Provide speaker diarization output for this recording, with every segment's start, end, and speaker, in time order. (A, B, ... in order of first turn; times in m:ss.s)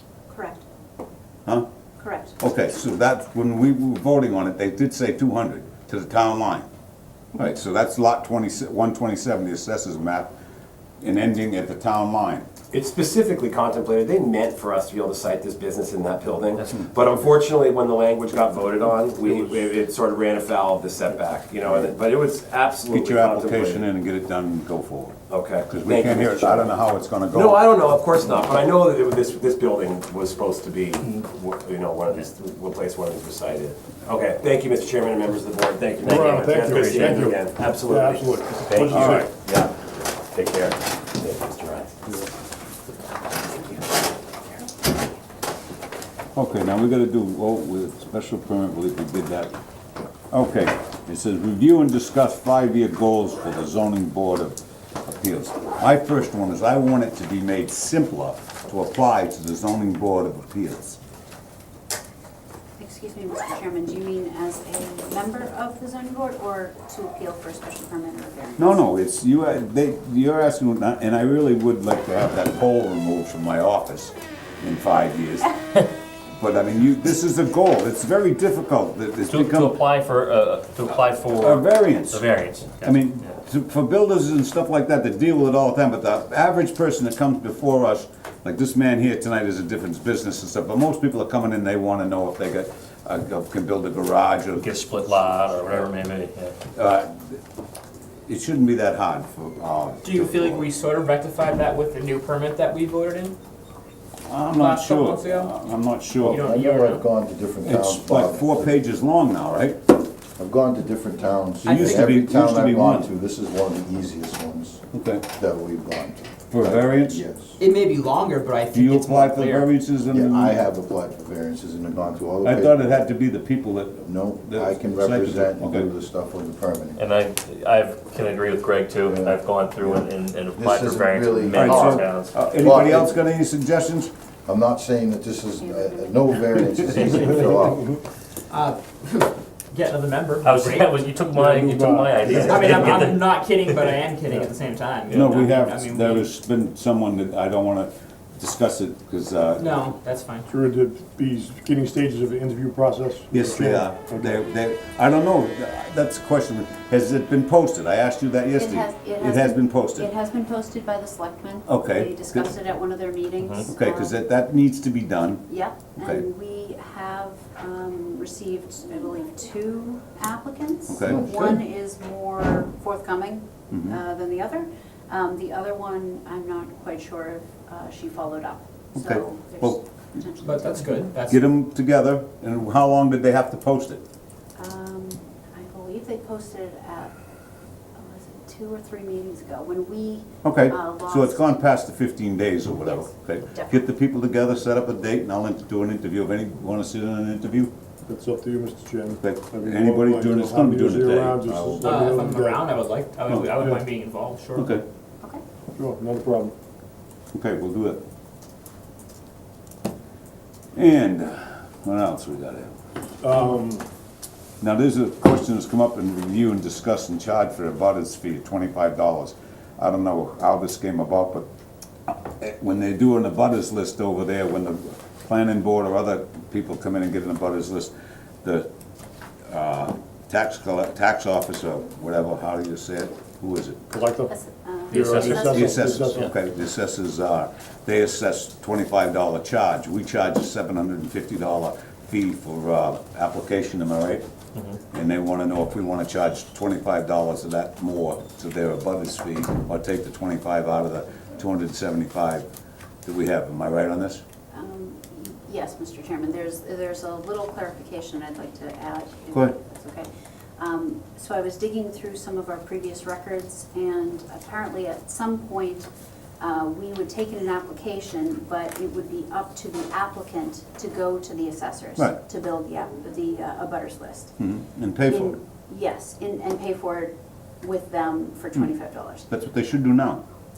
0:00.3-0:00.6 A
0:02.0-0:02.4 A
0:02.4-0:06.7 B
0:07.3-0:10.3 B
0:11.0-0:12.5 B
0:12.7-0:23.9 C
0:22.9-0:27.6 B
0:25.3-0:42.1 C
0:36.0-0:39.3 D
0:38.9-0:39.2 B
0:46.4-0:49.5 B
0:50.3-1:01.0 B
1:02.8-1:08.9 A
1:08.6-1:15.5 B
1:16.4-1:19.8 B
1:19.3-1:23.3 E
1:21.3-1:22.2 B
1:22.8-1:35.9 B
1:34.6-1:36.6 E
1:36.8-1:37.4 B
1:38.3-1:40.7 B
1:40.0-1:43.4 F
1:44.3-1:46.4 B
1:44.5-1:45.6 F
1:46.2-1:48.8 G
1:46.2-1:47.0 F
1:47.6-1:49.8 B
1:50.4-1:57.6 G
1:51.6-1:52.1 F
1:51.7-1:53.1 B
1:54.9-1:55.3 B
1:56.5-1:57.2 B
1:57.6-1:59.7 F
1:58.7-2:00.6 B
2:00.1-2:02.9 G
2:02.4-2:05.9 B
2:04.0-2:07.0 G
2:07.0-2:12.4 E
2:09.0-2:13.2 G
2:11.5-2:14.1 B
2:14.5-2:17.9 G
2:15.6-2:16.8 A
2:16.9-2:17.7 E
2:18.5-2:20.9 F
2:20.4-2:23.3 E
2:21.3-2:23.1 D
2:22.4-2:26.3 F
2:25.1-2:29.9 B
2:29.6-2:30.5 F
2:30.5-2:34.4 D
2:33.3-2:40.1 B
2:38.6-2:44.2 A
2:41.7-2:42.5 B
2:43.4-2:43.7 E
2:43.7-2:46.2 B
2:45.5-3:01.1 A
2:50.9-2:51.2 B
2:51.0-2:51.5 G
2:53.7-2:54.0 B
2:59.0-3:00.2 B
3:00.4-3:01.5 F
3:01.3-3:04.0 B
3:04.6-3:07.1 A
3:08.0-3:11.6 A
3:10.4-3:17.7 B
3:12.8-3:13.9 A
3:18.1-3:22.8 D
3:19.2-3:21.5 B
3:21.5-3:21.9 G
3:21.8-3:24.8 F
3:23.5-3:23.9 D
3:24.6-3:24.8 B
3:25.8-3:26.5 D
3:27.3-3:28.0 B
3:30.8-3:32.7 B
3:33.2-3:33.9 D
3:34.6-3:41.5 B
3:42.1-3:47.9 B
3:48.4-3:48.7 B
3:49.5-3:53.8 B
3:53.9-3:54.4 D
3:54.3-3:55.6 A
3:54.9-3:56.3 D
3:54.9-3:56.3 E
3:55.4-4:04.3 B
4:04.9-4:12.5 B
4:13.0-4:14.2 B
4:14.5-4:25.9 A
4:26.4-4:34.4 A
4:34.4-4:35.4 B
4:35.1-4:39.3 A
4:39.3-4:40.2 B